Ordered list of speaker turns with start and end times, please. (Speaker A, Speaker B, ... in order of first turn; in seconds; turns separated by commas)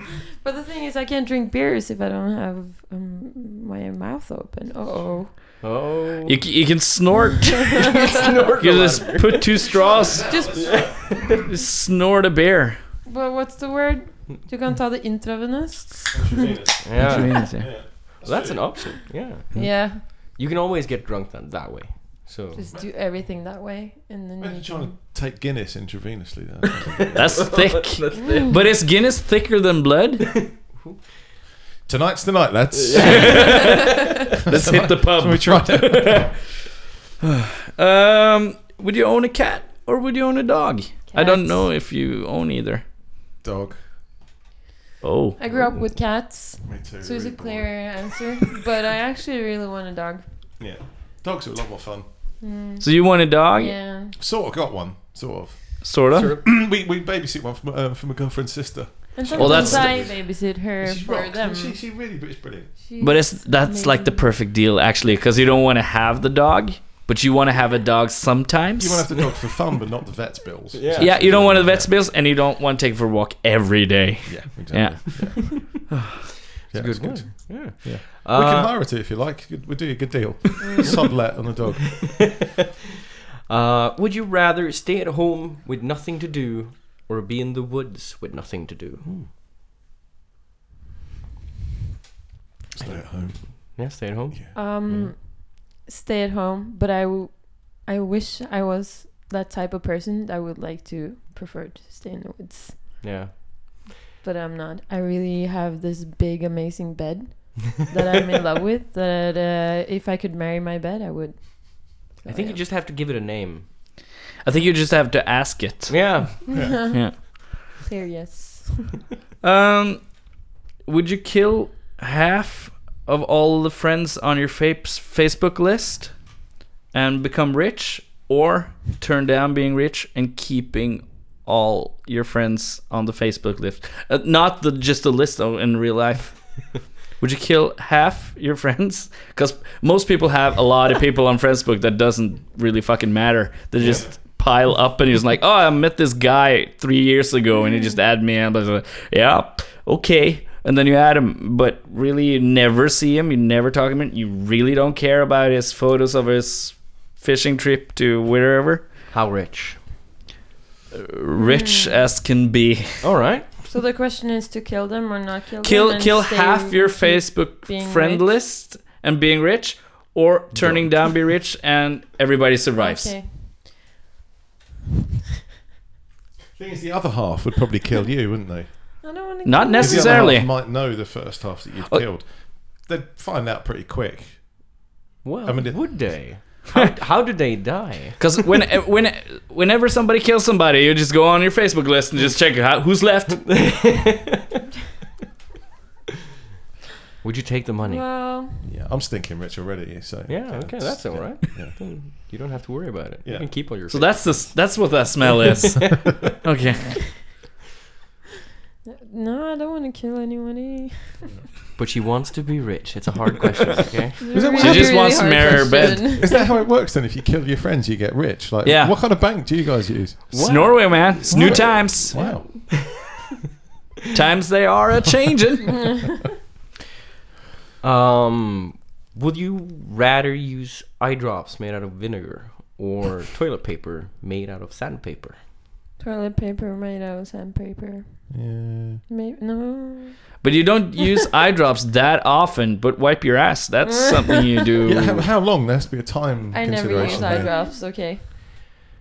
Speaker A: 0.4-5.3, Speaker B: 5.6-6.4, Speaker C: 6.3-7.7, Speaker A: 7.3-8.2, Speaker B: 7.9-9.8, Speaker C: 8.6-10.3, Speaker D: 9.8-11.1, Speaker A: 10.1-11.0, Speaker B: 10.4-11.5, Speaker C: 11.4-12.8, Speaker A: 13.1-16.7, Speaker D: 16.1-18.9, Speaker B: 16.8-22.6, Speaker C: 17.0-17.7, Speaker A: 19.5-20.0, Speaker A: 22.6-25.0, Speaker D: 24.4-27.2, Speaker B: 26.6-28.5, Speaker C: 27.1-30.4, Speaker A: 28.2-28.6, Speaker B: 30.4-31.0, Speaker D: 31.9-33.5, Speaker B: 32.7-33.9, Speaker A: 33.0-34.1, Speaker C: 33.2-33.8, Speaker D: 34.5-36.3, Speaker C: 34.5-36.5, Speaker C: 37.2-42.8, Speaker A: 41.1-41.7, Speaker D: 43.4-43.8, Speaker C: 45.0-45.4, Speaker A: 45.4-50.3, Speaker B: 45.5-45.8, Speaker D: 46.6-48.0, Speaker D: 50.6-52.1, Speaker A: 52.4-52.9, Speaker C: 52.8-53.8, Speaker A: 53.5-54.1, Speaker D: 54.1-62.7, Speaker C: 55.8-56.4, Speaker B: 56.1-56.5, Speaker A: 59.1-61.8, Speaker C: 59.4-59.9, Speaker B: 59.4-60.0, Speaker A: 62.8-64.3, Speaker C: 63.0-69.1, Speaker D: 68.8-71.9, Speaker B: 70.7-71.8, Speaker C: 71.0-76.1, Speaker D: 74.2-75.4, Speaker B: 75.2-75.6, Speaker B: 76.6-78.7, Speaker D: 76.7-82.0, Speaker B: 81.8-82.7, Speaker B: 83.5-89.2, Speaker D: 92.7-94.5, Speaker B: 92.8-95.1, Speaker A: 94.5-103.0, Speaker B: 103.0-103.8, Speaker A: 104.2-112.6, Speaker B: 112.3-113.7, Speaker C: 114.4-117.4, Speaker B: 115.9-116.5, Speaker A: 116.5-117.3, Speaker A: 117.8-119.0, Speaker C: 119.4-120.3, Speaker C: 120.8-126.2, Speaker C: 126.9-158.9, Speaker B: 143.8-144.1, Speaker D: 143.8-144.1, Speaker A: 147.6-147.9, Speaker B: 159.1-159.8, Speaker C: 160.9-163.1, Speaker A: 161.4-162.0, Speaker B: 163.0-163.6, Speaker A: 163.7-168.3, Speaker C: 165.6-173.1, Speaker B: 170.6-171.1, Speaker A: 172.8-173.6, Speaker D: 176.6-179.1, Speaker A: 179.0-180.3, Speaker C: 179.4-181.1, Speaker D: 179.8-184.8, Speaker B: 185.2-188.3, Speaker D: 185.5-186.3, Speaker C: 188.2-193.7, Speaker B: 193.4-194.4, Speaker B: 197.2-198.1, Speaker A: 197.8-198.7, Speaker D: 198.6-201.8, Speaker B: 200.3-206.1, Speaker D: 203.2-203.6, Speaker C: 203.9-207.2, Speaker A: 208.8-211.3, Speaker B: 211.8-214.2, Speaker A: 214.2-216.5, Speaker D: 214.3-220.3, Speaker C: 214.6-216.1, Speaker C: 218.7-219.0, Speaker B: 220.3-222.7, Speaker C: 220.3-222.2, Speaker D: 221.3-222.5, Speaker C: 224.1-225.8, Speaker B: 227.8-235.4, Speaker A: 236.0-238.3, Speaker D: 238.3-239.0, Speaker A: 239.1-240.3, Speaker C: 240.4-245.2, Speaker A: 243.9-244.9, Speaker D: 244.8-247.5, Speaker A: 246.5-248.4, Speaker B: 247.0-247.7